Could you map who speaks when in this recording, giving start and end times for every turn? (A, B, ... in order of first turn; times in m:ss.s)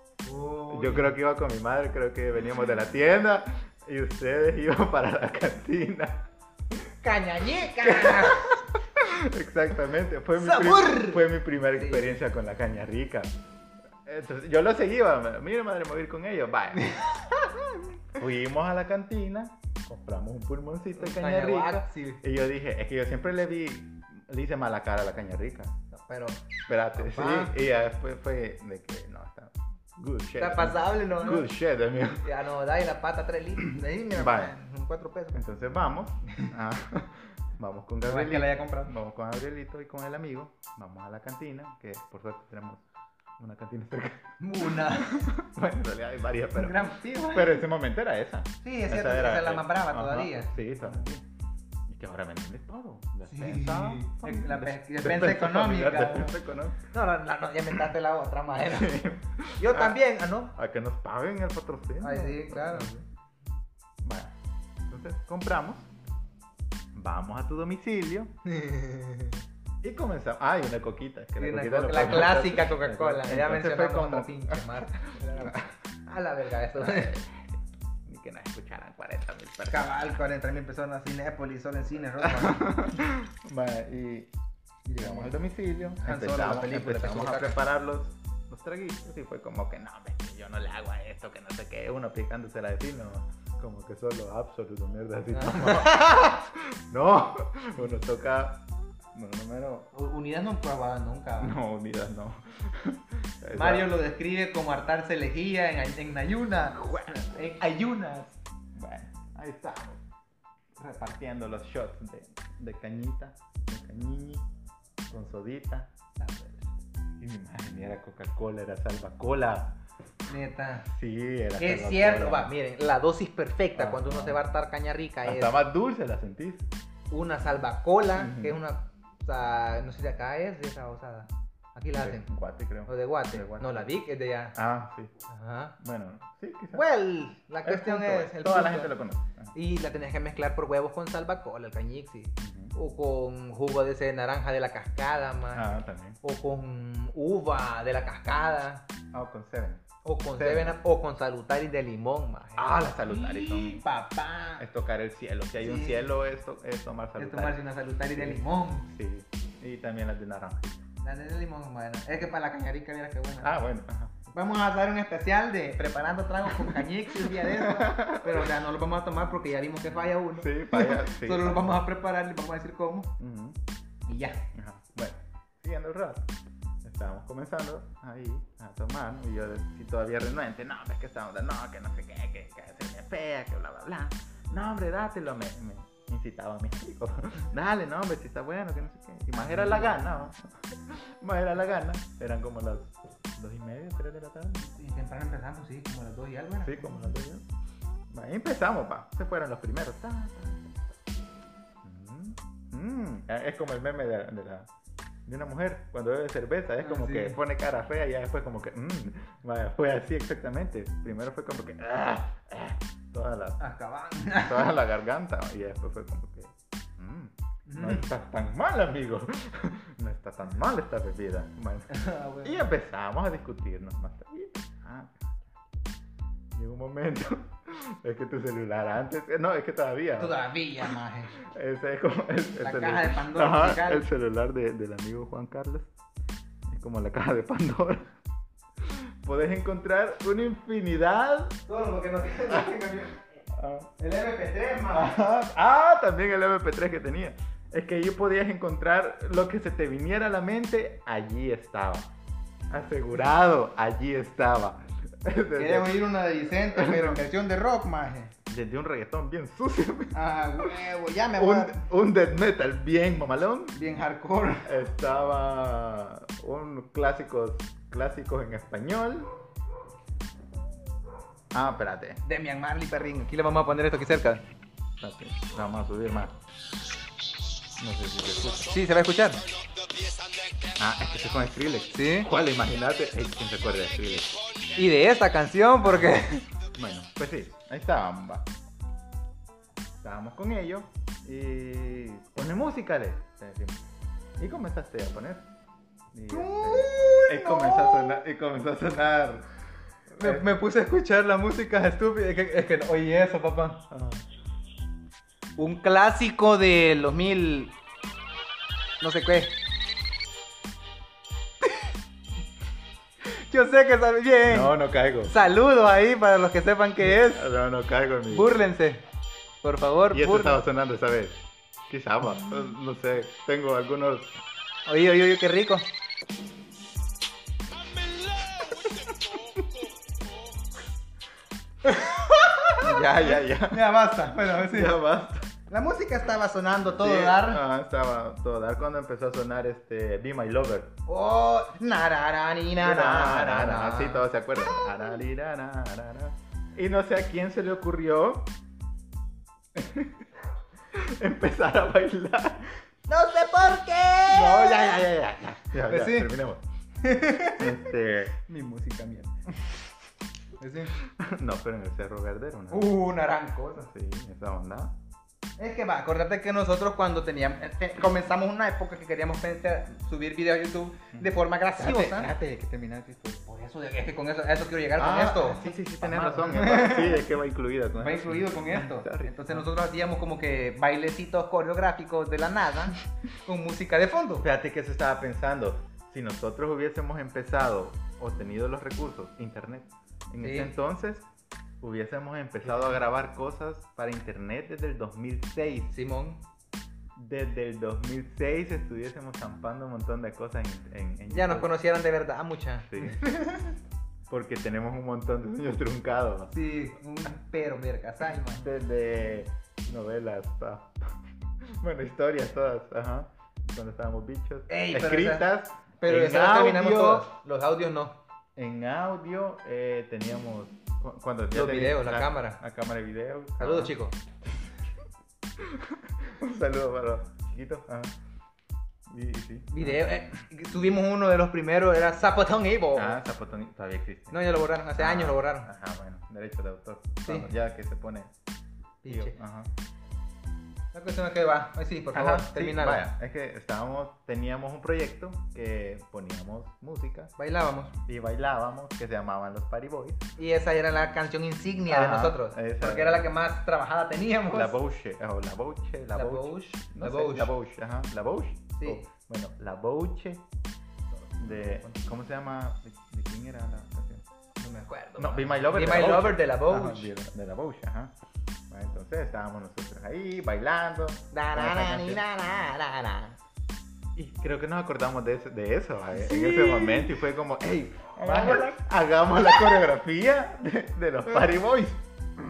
0:00.2-0:01.2 A
0:00.7-0:06.9 B
0:07.0-0:08.6 A
0:07.8-0:13.3 B
0:10.4-0:12.1 A
0:14.0-0:17.2 B
0:16.8-0:17.3 A
0:18.1-0:25.8 B
0:21.0-0:22.2 A
0:25.9-0:27.6 A
0:26.7-0:32.3 B
0:30.4-0:31.5 A
0:32.2-0:35.4 A
0:34.1-0:34.6 B
0:35.3-0:42.8 B
0:38.1-0:39.0 A
0:43.4-0:51.2 B
0:44.4-0:45.3 A
0:46.6-0:47.6 A
0:48.6-0:51.2 A
0:51.9-0:56.9 B
0:53.3-0:56.4 A
0:56.9-0:59.0 A
0:58.6-1:00.0 B
0:59.6-1:00.6 A
1:00.6-1:03.0 B
1:02.0-1:03.0 A
1:04.0-1:04.4 B
1:04.9-1:05.9 B
1:06.9-1:08.3 B
1:08.5-1:09.4 A
1:09.8-1:15.7 B
1:11.4-1:17.2 A
1:16.8-1:20.0 B
1:19.7-1:23.0 A
1:22.2-1:24.3 B
1:24.9-1:25.4 A
1:24.9-1:38.6 B
1:26.0-1:27.6 A
1:35.3-1:36.3 A
1:39.1-1:39.9 B
1:39.9-1:41.6 A
1:41.4-1:43.9 B
1:43.5-1:48.4 A
1:46.8-1:47.1 B
1:48.7-1:50.0 B
1:50.8-1:54.4 B
1:55.1-1:55.9 B
1:56.2-1:56.7 A
1:57.2-1:59.8 B
2:00.3-2:00.9 A
2:00.9-2:02.5 B
2:01.6-2:05.5 A
2:03.7-2:04.4 B
2:05.2-2:06.7 B
2:07.1-2:12.3 A
2:08.2-2:08.6 B
2:12.0-2:13.9 B
2:12.9-2:14.6 A
2:14.6-2:15.1 B
2:15.3-2:15.8 A
2:15.8-2:16.8 B
2:16.7-2:18.9 A
2:17.6-2:19.5 B
2:19.5-2:28.8 A
2:22.4-2:22.7 B
2:25.5-2:26.2 B
2:29.1-2:29.8 B
2:30.0-2:34.6 A
2:30.4-2:30.8 B
2:32.6-2:33.8 B
2:34.6-2:37.6 B
2:35.6-2:36.1 A
2:37.2-2:38.9 A
2:38.1-2:40.8 B
2:41.0-2:43.6 A
2:43.4-2:44.3 B
2:44.3-2:53.1 A
2:46.5-2:48.5 B
2:50.4-2:51.8 B
2:53.2-2:53.6 B
2:54.1-2:54.4 A
2:54.5-2:56.3 B
2:56.8-3:14.7 B
3:09.3-3:10.0 A
3:14.7-3:17.2 A
3:16.6-3:17.4 B
3:18.1-3:20.8 B
3:21.8-3:24.7 B
3:25.3-3:33.6 B
3:26.8-3:27.4 A
3:33.6-3:34.7 A
3:34.4-3:45.5 B
3:37.7-3:38.1 A
3:41.9-3:42.7 A
3:46.5-3:55.9 B
3:50.2-3:51.4 A
3:52.6-3:54.0 A
3:56.7-3:58.1 B
3:58.8-4:01.6 B
4:01.7-4:03.2 A
4:03.5-4:03.9 B
4:04.0-4:05.2 A
4:04.9-4:12.1 B
4:12.7-4:16.0 B
4:15.6-4:18.3 A
4:16.7-4:17.2 B
4:18.5-4:20.8 B
4:20.1-4:21.8 A
4:21.4-4:23.8 B
4:23.8-4:24.7 A
4:24.6-4:29.3 B
4:31.5-4:32.2 B
4:32.2-4:34.4 A
4:35.0-4:36.4 B
4:37.8-4:38.7 B
4:38.6-4:39.4 A
4:40.8-4:44.3 B
4:41.9-4:42.3 A
4:44.7-4:46.5 A
4:45.8-4:46.2 B
4:46.7-4:48.5 B
4:50.0-4:53.8 B
4:54.4-4:55.5 B
4:56.1-4:59.5 B
4:56.3-4:58.2 A
5:00.1-5:00.5 B
5:00.2-5:03.8 A
5:03.9-5:04.2 B
5:05.6-5:07.7 A
5:09.0-5:09.6 A
5:13.3-5:17.5 A
5:14.5-5:15.3 B
5:17.0-5:18.5 B
5:18.3-5:19.0 A
5:19.6-5:20.6 A
5:20.1-5:24.4 B
5:24.9-5:25.9 A
5:28.6-5:29.6 B
5:31.8-5:35.0 A
5:32.8-5:33.9 B
5:34.5-5:35.5 B
5:35.7-5:37.6 A
5:36.9-5:41.0 B
5:41.1-5:44.2 A
5:42.8-5:48.5 B
5:49.8-5:50.2 B
5:50.9-5:52.8 B
5:53.1-5:55.1 A
5:54.3-5:56.6 B
5:55.9-5:56.3 A
5:57.0-5:57.8 A
5:57.6-5:58.4 B
5:58.4-5:59.4 A
6:00.6-6:01.0 A
6:01.0-6:03.0 B
6:02.7-6:03.9 A
6:03.8-6:04.9 B
6:05.6-6:12.3 A
6:11.1-6:13.4 B
6:13.5-6:17.2 A
6:15.0-6:19.6 B
6:18.0-6:24.4 A
6:24.4-6:31.3 B
6:30.4-6:30.7 A
6:31.8-6:35.9 B
6:32.7-6:33.0 A
6:35.9-6:36.4 A
6:37.2-6:41.7 B
6:41.3-6:43.7 A
6:42.9-6:43.2 B
6:44.3-6:46.6 B
6:46.5-6:48.6 A
6:48.4-6:57.3 B
6:54.7-6:58.2 A
6:58.6-7:03.9 B
7:01.5-7:02.6 A
7:03.6-7:04.2 A
7:05.6-7:08.2 B
7:09.1-7:10.2 B
7:09.7-7:13.2 A
7:13.0-7:18.3 B
7:14.3-7:15.7 A
7:19.0-7:19.4 A
7:19.1-7:19.7 B
7:20.9-7:23.1 A
7:22.1-7:27.3 B
7:27.4-7:28.0 A
7:28.0-7:30.3 B
7:30.4-7:34.7 A
7:31.9-7:33.3 B
7:34.5-7:40.4 B
7:36.1-7:37.5 A
7:38.8-7:39.0 A
7:41.1-7:42.1 A
7:41.4-7:44.2 B
7:44.6-7:47.1 A
7:45.2-7:48.1 B
7:48.7-7:52.2 B
7:51.3-7:53.4 A
7:54.2-8:02.0 B
7:56.1-7:57.2 A
7:58.2-7:58.8 A
7:59.4-7:59.8 A